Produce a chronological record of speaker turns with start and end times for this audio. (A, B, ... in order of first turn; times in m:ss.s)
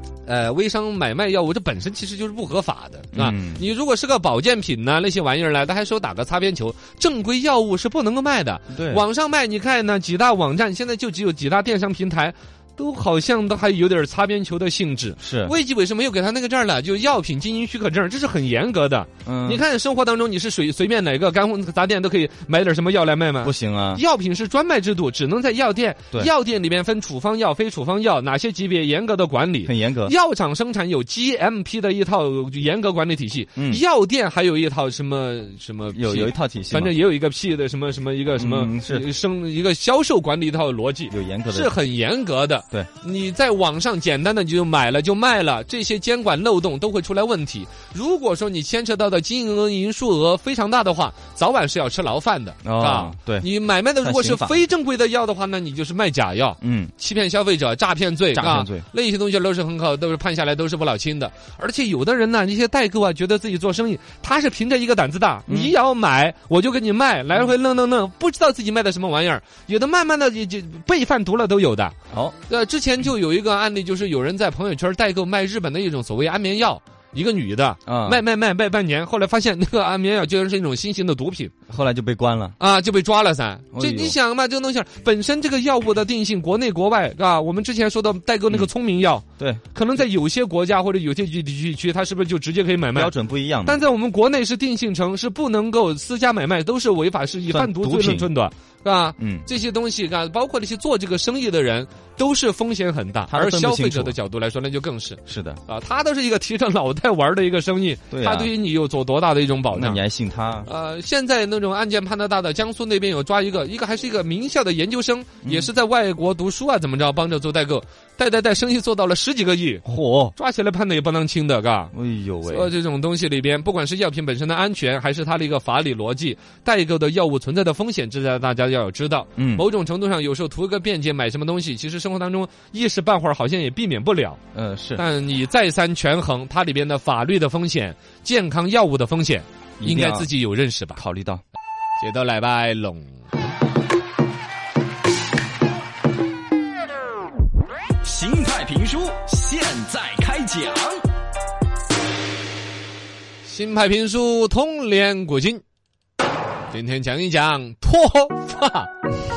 0:00.2-1:12.0 A
0:03.1-0:03.7 B
0:08.7-0:09.0 B
0:15.2-0:15.6 B
0:19.2-0:19.6 B
0:23.4-0:24.0 B
0:29.6-0:30.2 B
0:33.6-0:33.8 B
0:35.9-0:37.0 B
0:38.4-0:39.1 B
0:41.1-0:41.8 B
0:52.6-0:53.5 B
0:54.0-0:54.6 B
0:56.6-0:56.9 B
0:58.3-0:58.9 B
1:05.5-1:05.8 B
1:12.1-1:12.4 B
1:12.5-1:21.6 A
1:17.9-1:18.2 B
1:21.7-1:22.6 B
1:22.6-1:33.1 A
1:23.7-1:24.2 B
1:32.9-1:33.8 B
1:33.7-1:50.0 A
1:37.5-1:38.3 B
1:39.2-1:39.5 B
1:43.3-1:44.2 B
1:45.3-1:45.6 B
1:48.1-1:48.5 B
1:49.7-1:50.7 B
1:50.6-2:01.9 A
1:55.4-1:55.7 B
1:59.9-2:00.4 B
2:01.9-2:02.7 B
2:02.5-2:14.4 A
2:09.4-2:09.7 B
2:14.5-2:15.0 B
2:15.0-2:21.0 A
2:19.8-2:20.3 B
2:21.0-2:21.4 B
2:22.0-2:23.2 A
2:28.0-2:31.0 C
2:33.4-2:35.6 A
2:36.7-2:38.9 A